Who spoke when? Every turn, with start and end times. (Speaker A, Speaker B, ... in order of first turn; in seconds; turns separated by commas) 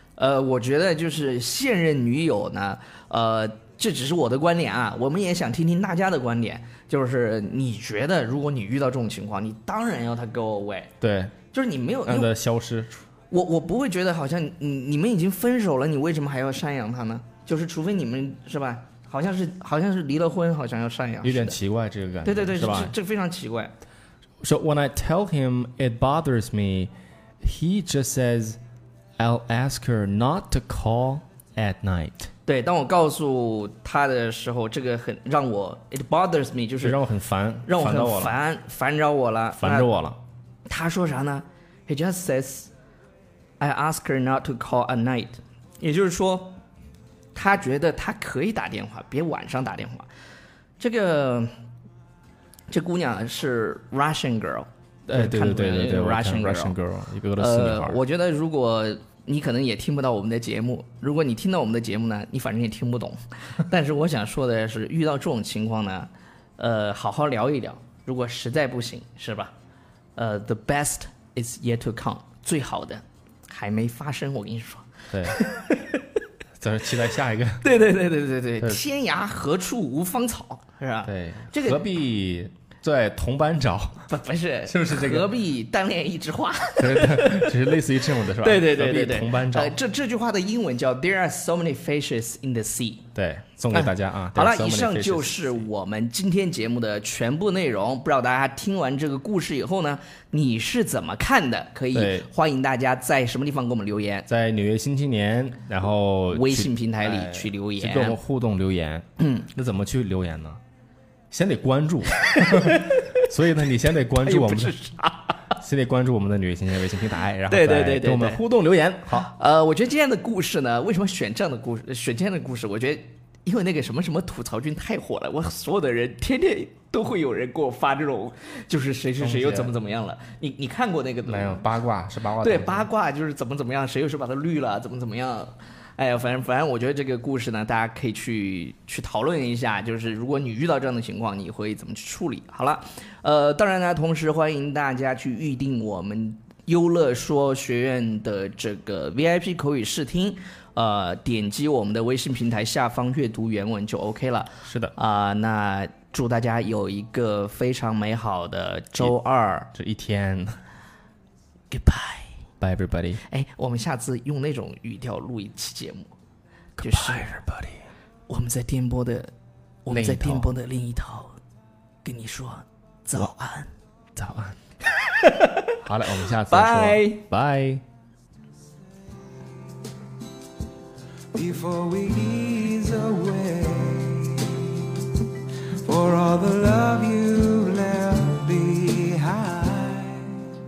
Speaker A: 0.2-10.9, Speaker B: 11.0-11.3, Speaker A: 11.5-12.3, Speaker B: 12.1-13.0, Speaker A: 13.3-21.6, Speaker B: 21.2-22.9, Speaker A: 22.2-23.7, Speaker B: 24.4-28.6, Speaker B: 29.2-32.3, Speaker A: 32.5-37.0, Speaker B: 36.8-38.4, Speaker A: 37.7-40.0, Speaker B: 39.6-40.2, Speaker A: 40.7-42.7, Speaker A: 43.6-46.6, Speaker A: 47.4-50.1, Speaker A: 50.8-51.5, Speaker A: 52.7-56.8, Speaker B: 55.1-58.0, Speaker A: 57.4-69.5, Speaker A: 70.2-76.0, Speaker B: 75.1-75.4, Speaker B: 76.6-77.7, Speaker A: 77.6-81.8, Speaker B: 81.1-84.1, Speaker A: 84.1-87.8, Speaker B: 84.7-85.3, Speaker B: 86.8-89.8, Speaker A: 88.3-93.0, Speaker B: 93.2-95.6, Speaker A: 93.7-104.3, Speaker B: 101.9-102.3, Speaker B: 104.3-110.6, Speaker A: 106.3-108.2, Speaker B: 111.3-114.8, Speaker A: 112.2-113.3, Speaker A: 114.2-115.5, Speaker B: 115.6-119.3, Speaker A: 117.5-118.5, Speaker A: 119.1-131.7, Speaker B: 129.2-129.7, Speaker B: 131.2-132.9, Speaker A: 132.4-159.7, Speaker B: 154.7-154.9, Speaker B: 159.7-160.6, Speaker A: 161.7-162.3, Speaker B: 162.6-163.2, Speaker A: 163.2-166.1, Speaker B: 166.8-167.9, Speaker A: 166.8-167.3, Speaker A: 168.3-169.3, Speaker A: 169.9-171.4, Speaker B: 169.9-170.5, Speaker A: 172.0-173.7, Speaker B: 174.2-174.6, Speaker A: 175.0-175.8, Speaker B: 175.8-177.8, Speaker A: 176.5-177.2, Speaker C: 181.3-185.1, Speaker C: 185.7-190.5